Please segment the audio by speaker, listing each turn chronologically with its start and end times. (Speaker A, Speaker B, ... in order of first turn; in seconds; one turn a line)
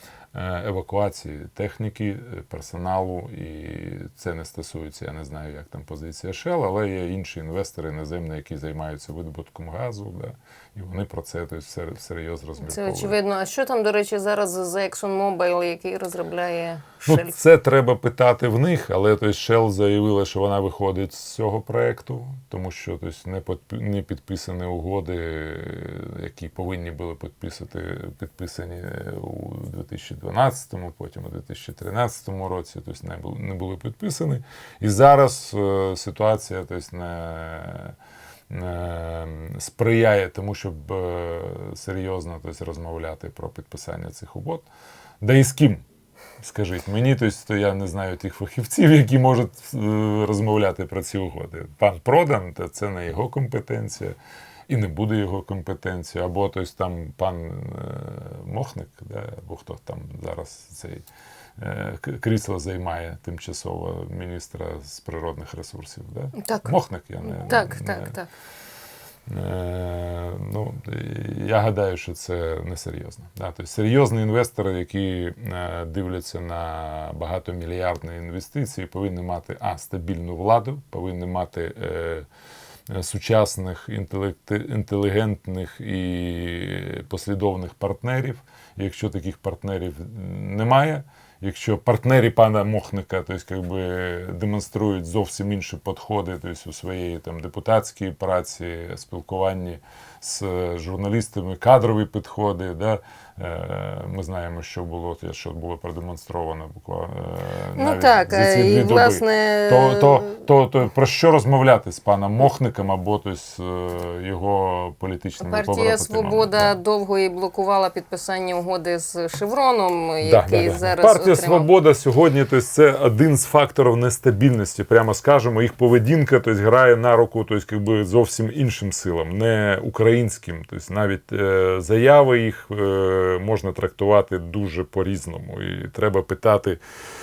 Speaker A: 0.3-13.2
Speaker B: 12.6-17.3
Speaker A: 17.1-38.0
Speaker A: 38.5-44.7
Speaker A: 45.2-45.8
Speaker A: 46.4-54.1
Speaker A: 54.7-61.0
Speaker A: 61.6-68.2
Speaker B: 66.3-68.3
Speaker A: 69.3-82.2
Speaker A: 82.9-116.8
Speaker B: 107.8-110.4
Speaker B: 115.4-121.7
Speaker A: 120.2-136.8